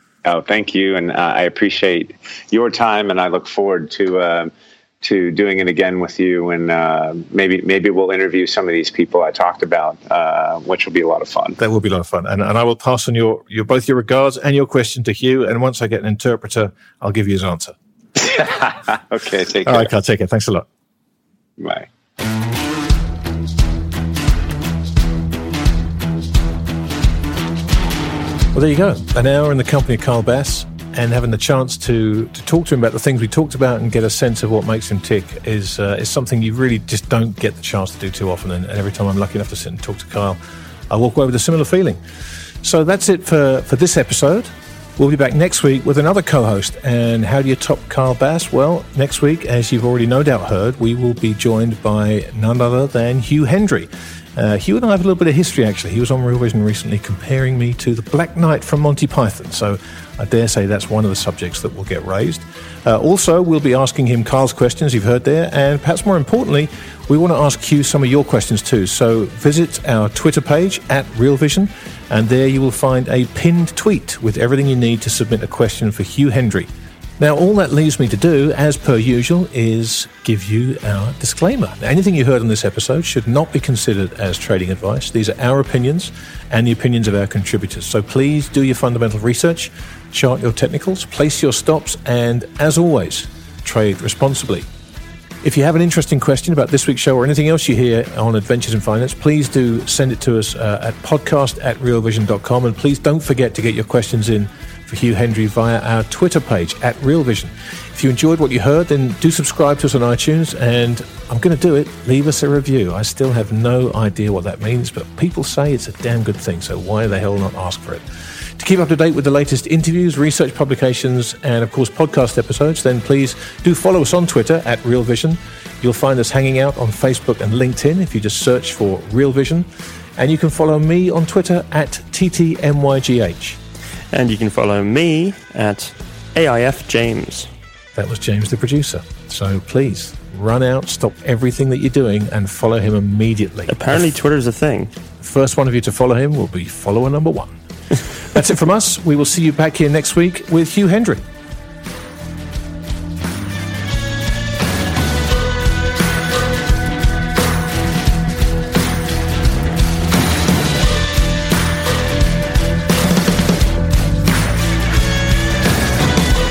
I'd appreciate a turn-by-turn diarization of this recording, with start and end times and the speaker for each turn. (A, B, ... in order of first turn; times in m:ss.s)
0:00.2-0:11.6 A
0:11.6-0:17.8 B
0:18.2-0:19.9 A
0:19.6-0:20.7 B
0:21.6-0:21.9 A
0:28.5-0:40.4 B
0:40.9-0:42.0 B
0:42.6-1:34.7 B
1:35.4-2:09.7 B
2:10.2-2:13.6 B
2:14.1-2:17.5 C
2:17.9-2:23.8 B
2:23.7-2:24.9 C
2:25.2-2:31.2 B